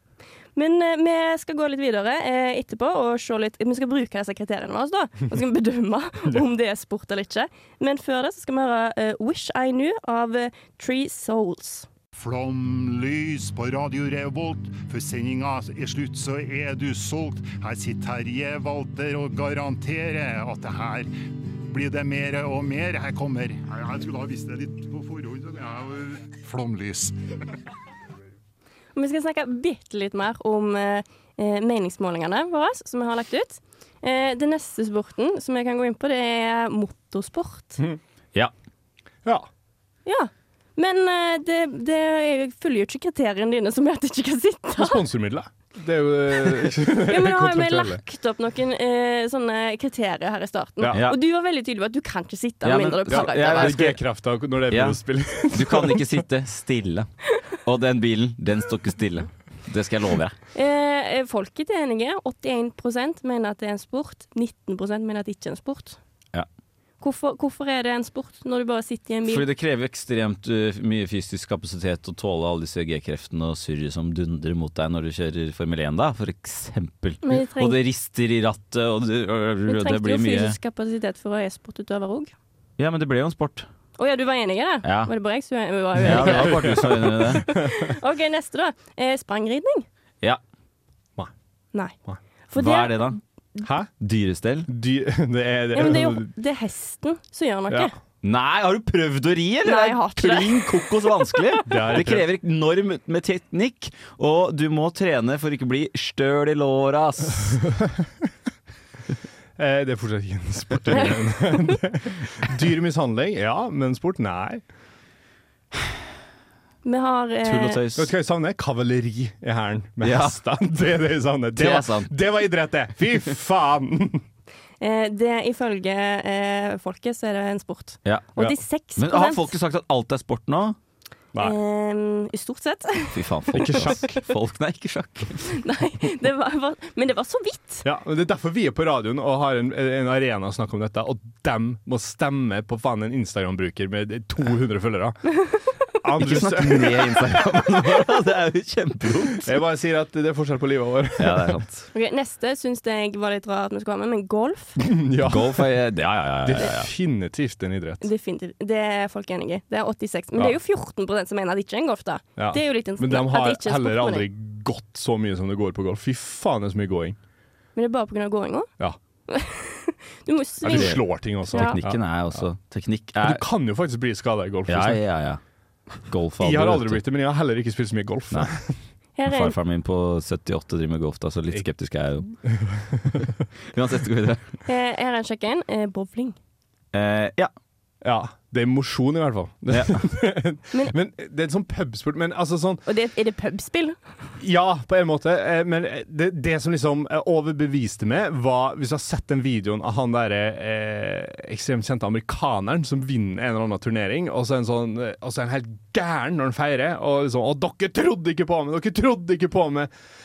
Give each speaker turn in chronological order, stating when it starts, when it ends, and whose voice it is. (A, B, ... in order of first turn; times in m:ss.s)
0:00.6-0:11.9 A
0:12.1-0:21.1 B
0:21.6-0:27.2 B
0:28.9-0:37.8 A
0:40.0-0:45.0 A
0:44.8-0:48.0 C
0:47.0-0:53.7 A
0:50.9-0:51.2 D
0:52.6-0:54.0 D
0:53.1-0:56.2 C
0:54.7-1:00.4 D
1:00.5-1:06.0 A
1:07.0-1:09.4 A
1:09.2-1:20.6 D
1:17.2-1:17.8 A
1:19.7-1:22.3 A
1:22.8-1:23.7 D
1:24.0-1:29.8 A
1:24.8-1:25.1 D
1:26.0-1:27.5 D
1:26.1-1:27.6 C
1:32.5-1:33.6 A
1:32.5-1:33.2 D
1:33.6-1:33.9 C
1:34.0-1:34.7 D
1:34.7-1:36.3 C
1:35.7-1:37.9 A
1:38.2-1:47.7 D
1:39.6-1:41.6 A
1:41.7-1:42.3 C
1:49.6-1:54.6 C
1:56.8-1:57.8 A
1:57.4-1:58.1 D
1:58.0-2:04.2 C
2:00.0-2:00.4 D
2:01.6-2:02.1 D
2:04.8-2:09.5 A
2:08.0-2:08.3 D
2:09.0-2:10.8 D
2:11.4-2:13.9 A
2:13.1-2:15.5 D
2:13.5-2:14.2 C
2:15.5-2:17.8 A
2:17.8-2:25.4 C
2:25.9-2:27.9 C
2:26.2-2:29.5 D
2:29.4-2:31.6 C
2:31.2-2:31.9 D
2:31.9-2:34.8 A
2:34.8-2:35.7 C
2:35.2-2:36.9 D
2:36.4-2:38.0 C
2:38.0-2:44.3 A
2:42.4-2:47.2 C
2:47.8-2:48.7 A
2:49.3-2:51.0 A
2:50.6-2:52.4 C
2:50.6-2:53.4 D
2:51.5-2:51.8 A
2:53.2-2:55.0 C
2:54.7-2:55.4 D
2:56.0-2:57.0 D
2:56.4-2:58.7 C
2:59.2-2:59.6 A
2:59.2-3:02.3 D
3:02.3-3:03.3 C
3:03.7-3:04.6 D
3:04.6-3:06.4 A
3:06.9-3:07.5 D
3:08.0-3:12.8 C
3:09.7-3:10.1 D
3:12.8-3:14.0 A
3:14.4-3:29.9 C